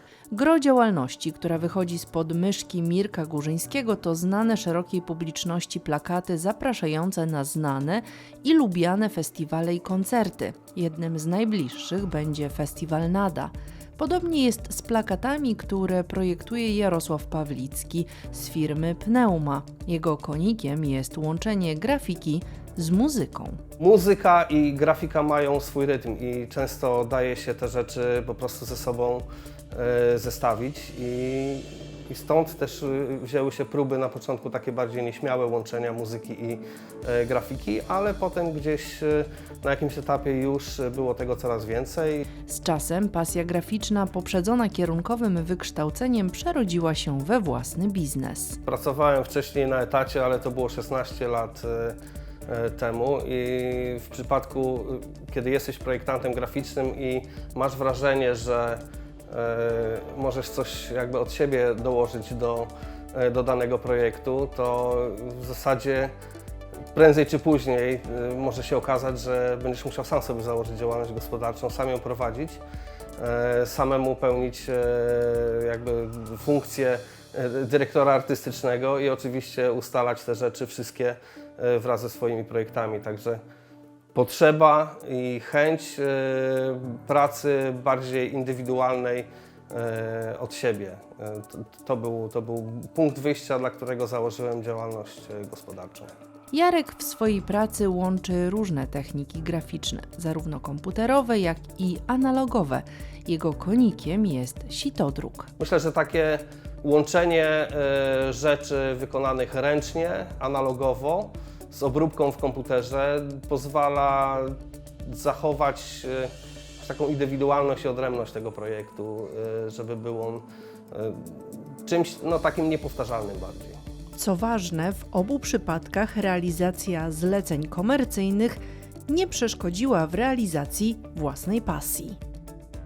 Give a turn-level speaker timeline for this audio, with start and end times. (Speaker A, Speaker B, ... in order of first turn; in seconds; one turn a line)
Speaker A: 0.3-23.6
Speaker B: 23.8-42.2
Speaker A: 42.5-48.6
Speaker B: 48.6-52.0
Speaker B: 52.5-66.1
Speaker B: 66.9-72.6
Speaker B: 73.2-83.4
Speaker B: 84.1-96.1
Speaker A: 96.5-105.5
Speaker B: 105.6-123.8
Speaker A: 124.2-132.2